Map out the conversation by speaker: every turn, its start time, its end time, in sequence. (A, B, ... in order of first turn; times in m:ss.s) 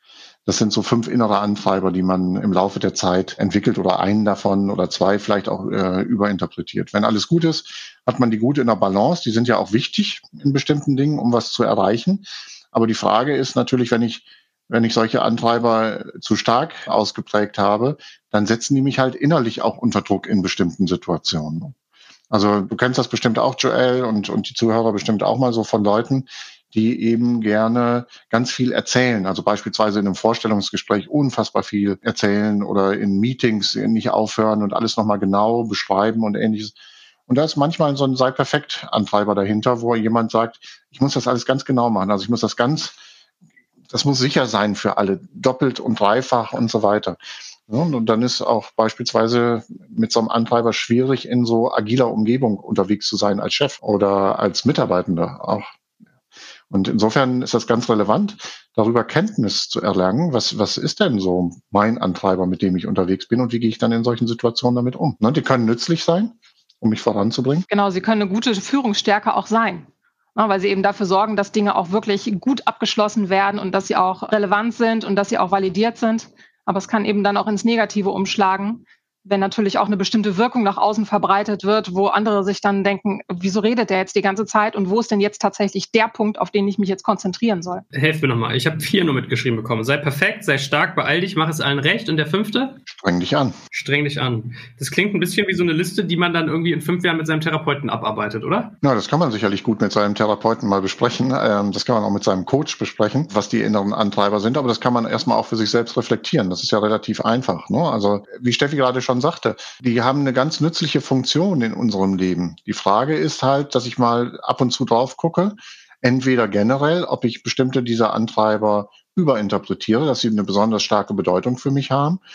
0:00.5-0:21.8 A
0:22.3-0:36.7 A
0:37.3-0:43.0 A
0:43.9-0:55.7 A
0:56.7-1:07.7 A
1:07.7-1:27.8 B
1:27.9-1:32.8 C
1:32.9-1:33.6 A
1:33.7-1:38.7 C
1:38.8-2:02.2 A